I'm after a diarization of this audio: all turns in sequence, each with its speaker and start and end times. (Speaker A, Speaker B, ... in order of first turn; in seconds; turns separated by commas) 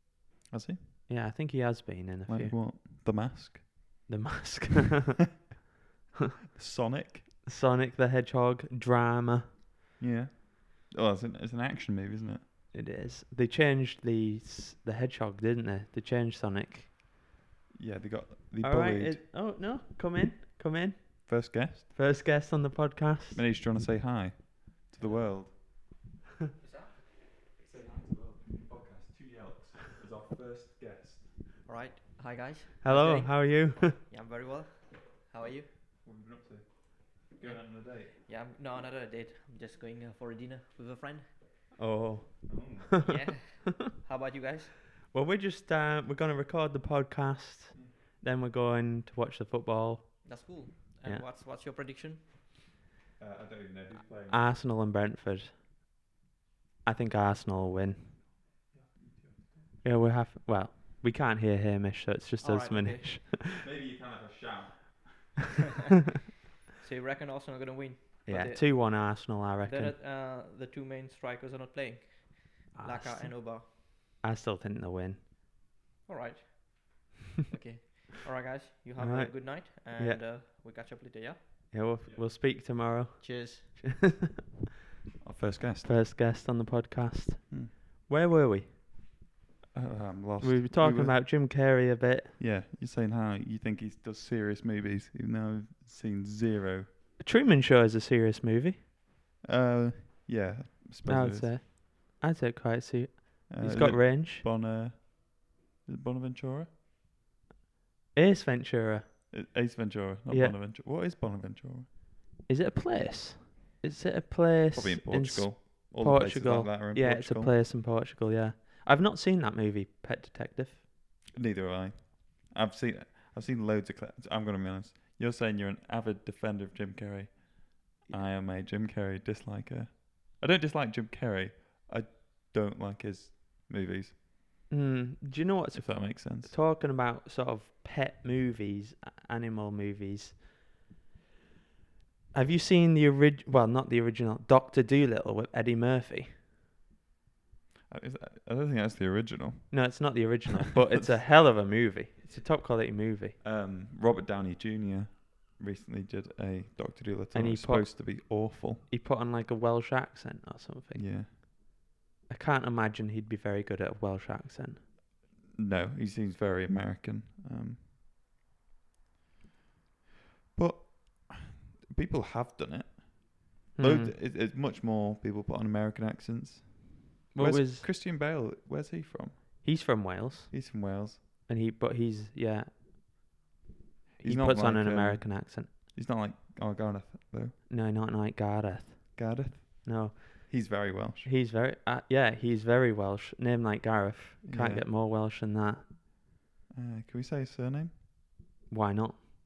Speaker A: 0.5-0.8, Speaker B: 1.1-2.6, Speaker A: 2.2-3.9, Speaker B: 4.1-5.3, Speaker A: 6.5-7.2, Speaker B: 7.4-9.5, Speaker A: 10.0-12.4, Speaker B: 12.7-16.9, Speaker A: 17.7-19.2, Speaker B: 18.6-23.4, Speaker A: 21.3-21.9, Speaker A: 23.3-25.6, Speaker C: 25.0-25.3, Speaker C: 26.6-27.0, Speaker A: 27.6-31.3, Speaker C: 31.6-35.7, Speaker B: 32.8-34.0, Speaker A: 36.0-38.1, Speaker C: 37.4-41.3, Speaker B: 41.8-43.5, Speaker A: 42.5-42.9, Speaker C: 43.0-44.7, Speaker B: 45.0-51.2, Speaker C: 50.2-52.3, Speaker A: 53.2-54.4, Speaker B: 54.3-55.5, Speaker B: 56.8-58.2, Speaker A: 58.7-59.6, Speaker B: 59.8-63.6, Speaker C: 62.4-63.2, Speaker A: 63.5-65.5, Speaker C: 66.8-73.7, Speaker B: 68.3-70.0, Speaker B: 72.7-75.2, Speaker C: 76.0-81.4, Speaker B: 79.0-80.2, Speaker B: 81.7-84.4, Speaker C: 83.2-84.1, Speaker A: 85.2-85.9, Speaker B: 85.8-88.8, Speaker A: 89.7-91.2, Speaker B: 90.4-92.4, Speaker A: 92.4-96.9, Speaker B: 97.2-98.8, Speaker A: 99.4-101.5, Speaker B: 101.0-104.4, Speaker A: 103.5-106.7, Speaker B: 108.1-109.1, Speaker A: 109.3-111.9, Speaker B: 110.3-110.5, Speaker B: 112.5-120.8, Speaker A: 114.7-117.5, Speaker A: 121.3-134.1, Speaker B: 134.7-140.4, Speaker A: 135.7-136.5, Speaker B: 142.3-146.3, Speaker A: 147.9-149.9, Speaker B: 149.7-153.4, Speaker A: 153.4-158.8, Speaker B: 157.3-161.4, Speaker A: 160.9-161.3, Speaker B: 162.3-164.8, Speaker A: 165.5-167.8, Speaker A: 170.5-179.6, Speaker B: 173.8-174.1, Speaker B: 177.3-177.9, Speaker B: 179.6-180.5, Speaker A: 180.5-181.2, Speaker B: 181.4-182.7, Speaker B: 184.2-185.7, Speaker A: 184.2-187.6, Speaker B: 187.7-189.3, Speaker A: 189.2-191.3, Speaker B: 189.8-195.8, Speaker A: 194.5-194.9, Speaker A: 196.7-197.9, Speaker B: 198.7-199.2